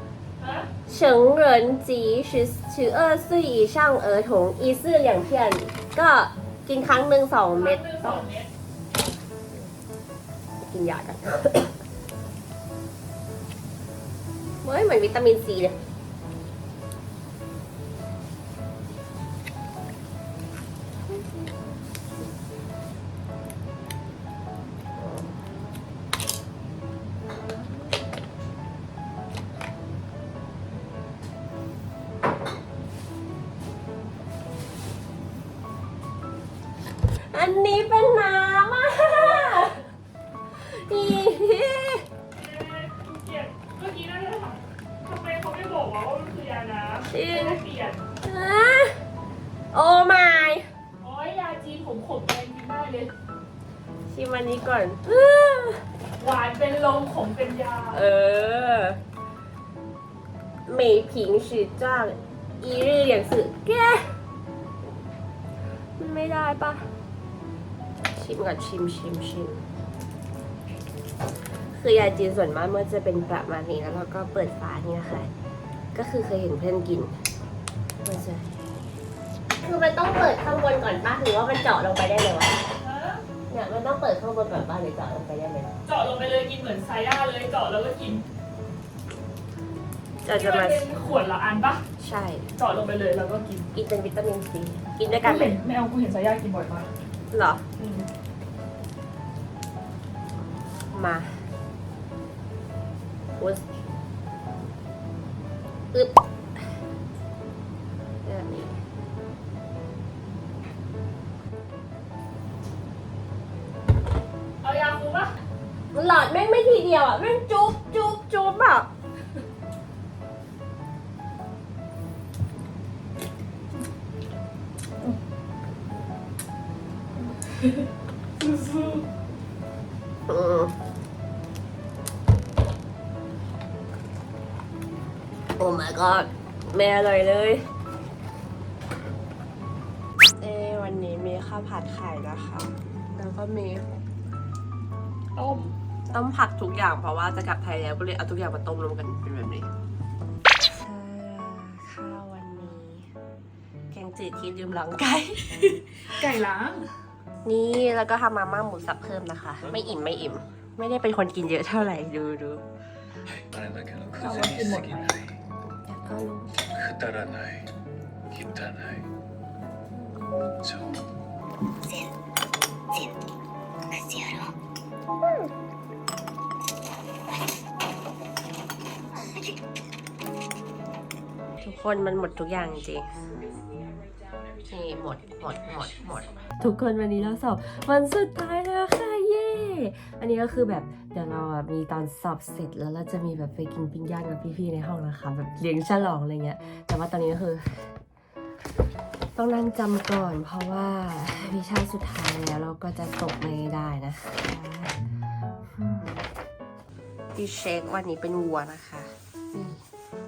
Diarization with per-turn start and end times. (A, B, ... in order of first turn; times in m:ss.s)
0:00.4-0:00.7 A
0:00.9-0:08.2 B
0:07.5-0:08.5 A
0:10.6-0:11.8 B
0:14.6-0:15.8 B
0:25.0-0:25.3 B
0:37.1-0:39.9 B
0:40.5-0:42.1 B
0:42.3-0:48.0 A
0:47.1-0:47.6 B
0:48.2-0:49.0 B
0:49.7-0:50.7 B
0:51.0-0:53.1 A
0:54.1-0:55.8 B
0:56.2-0:58.0 A
0:57.9-0:59.0 B
1:00.7-1:04.1 B
1:06.0-1:06.9 B
1:08.1-1:09.6 B
1:11.7-1:15.3 B
1:15.9-1:17.2 B
1:18.0-1:18.5 B
1:19.6-1:22.6 B
1:22.8-1:23.2 A
1:23.5-1:25.7 B
1:25.8-1:28.2 A
1:30.2-1:31.2 B
1:30.3-1:31.8 A
1:32.0-1:32.5 B
1:32.6-1:33.7 A
1:33.7-1:35.6 B
1:35.1-1:36.9 A
1:37.3-1:37.6 B
1:37.8-1:38.1 A
1:40.8-1:41.5 B
1:43.4-1:43.6 B
1:48.2-1:48.8 B
1:54.6-1:55.4 A
1:55.9-1:58.9 B
2:08.4-2:09.0 A
2:10.3-2:10.8 B
2:15.6-2:17.6 B
2:20.4-2:23.9 B
2:25.4-2:25.8 A
2:26.1-2:29.7 B
2:30.7-2:33.1 B
2:33.9-2:36.3 B
2:36.1-2:36.9 A
2:37.4-2:42.6 B
2:43.5-2:45.1 C
2:44.2-2:45.3 A
2:45.8-2:46.5 B
2:46.8-2:47.7 C
2:48.3-2:49.1 C
2:50.2-2:50.6 B
3:01.6-3:03.1 B
3:04.7-3:17.9 B
3:19.4-3:25.0 B
3:25.6-3:26.2 B
3:27.3-3:29.8 B